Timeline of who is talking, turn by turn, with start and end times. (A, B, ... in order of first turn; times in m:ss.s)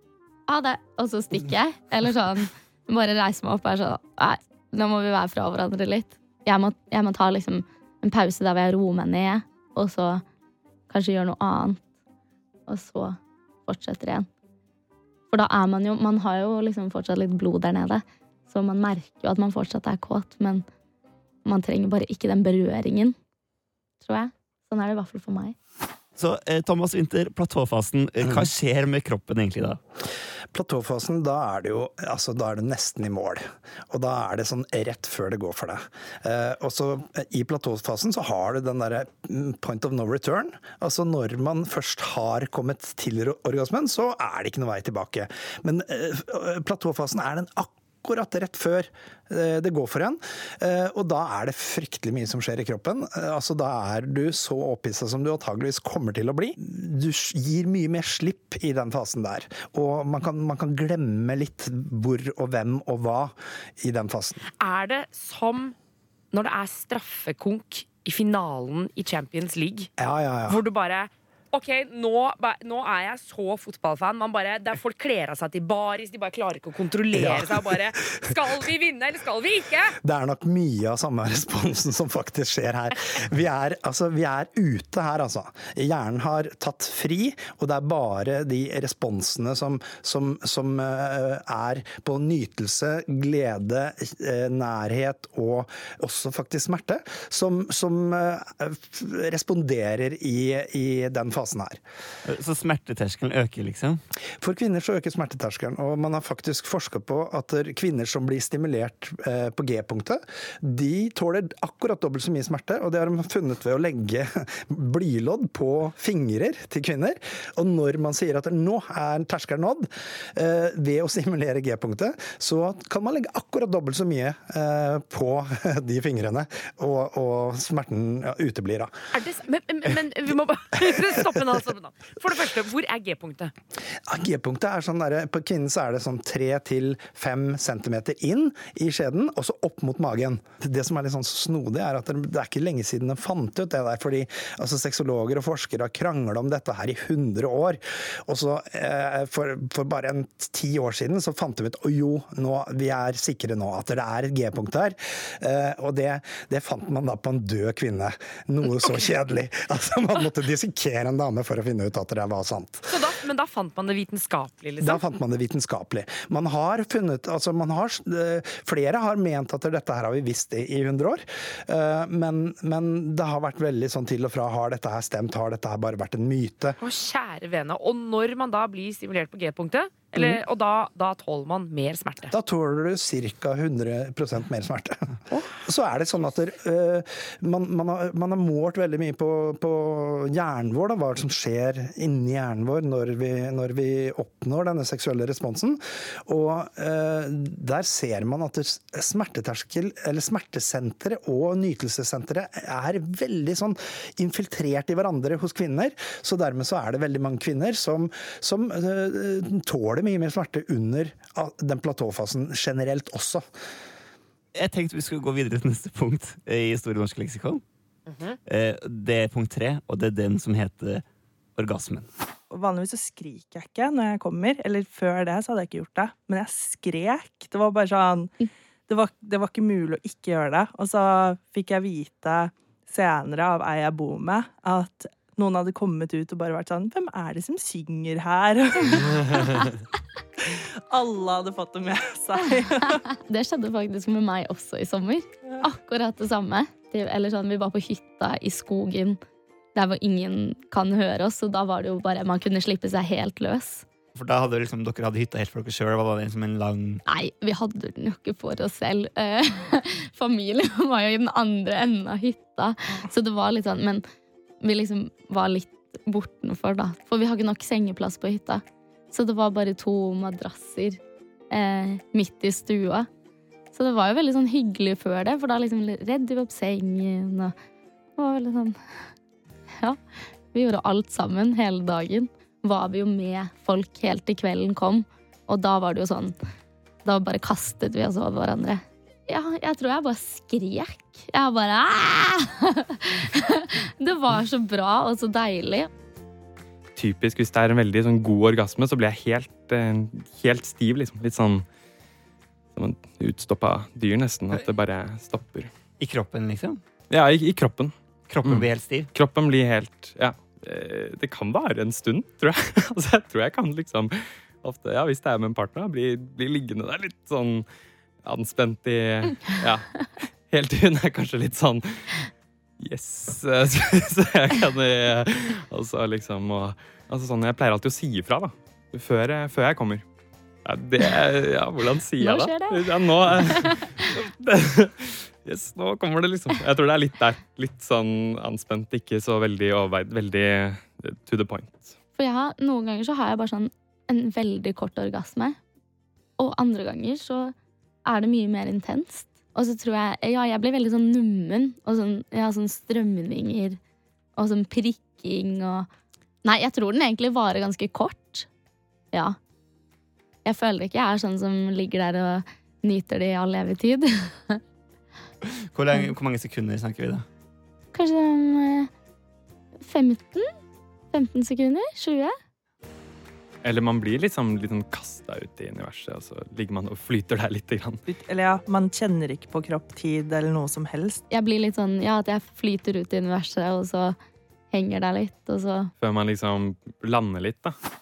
0:00.5-0:10.2 A
0:10.9-0:11.8 A
0:12.7-0:14.3 A
0:15.3-0:20.6 A
0:21.4-0:23.2 A
0:24.0-0:25.6 A
0:26.2-0:29.8 B
0:28.2-0:28.5 C
0:30.5-1:04.4 C
1:04.6-1:05.7 D
1:06.3-1:09.9 D
1:10.0-1:10.6 C
1:10.5-1:20.0 D
1:17.1-1:18.6 C
1:20.0-1:41.8 C
1:42.3-1:44.0 B
1:44.4-2:08.9 C
2:09.1-2:13.5 D
2:14.0-2:43.0 C
2:42.9-2:45.0 D
2:44.8-2:56.8 C
2:56.8-3:02.3 D
3:02.3-3:05.1 C
3:05.6-3:33.4 C
3:34.5-3:37.6 B
3:38.1-3:38.4 D
3:38.4-3:41.0 B
3:41.6-3:42.1 B
3:42.5-3:48.3 E
3:48.9-3:59.7 E
4:00.5-4:03.0 E
4:03.1-4:09.2 A
4:09.7-4:13.8 A
4:14.1-4:17.0 B
4:17.1-4:24.0 A
4:24.6-4:31.0 A
4:31.5-4:33.1 A
4:33.7-4:37.5 A
4:38.2-4:38.8 A
4:40.5-4:46.3 A
4:47.0-4:55.9 A
4:57.0-5:01.6 F
5:02.8-5:05.7 F
5:06.0-5:06.8 B
5:07.1-5:07.9 F
5:08.3-5:09.1 B
5:08.4-5:17.6 F
5:18.2-5:22.3 F
5:22.8-5:30.0 F
5:30.6-5:41.9 F
5:32.2-5:34.1 A
5:42.2-5:45.6 A
5:46.4-5:47.5 A
5:48.0-5:53.8 A
5:54.4-5:55.9 A
5:56.4-5:58.5 A
6:00.4-6:04.6 A
6:05.5-6:07.2 B
6:07.9-6:08.9 A
6:09.8-6:10.5 A
6:11.1-6:12.3 A
6:13.6-6:18.0 F
6:18.0-6:21.2 E
6:21.3-6:24.2 A
6:24.7-6:25.9 A
6:26.0-6:27.8 F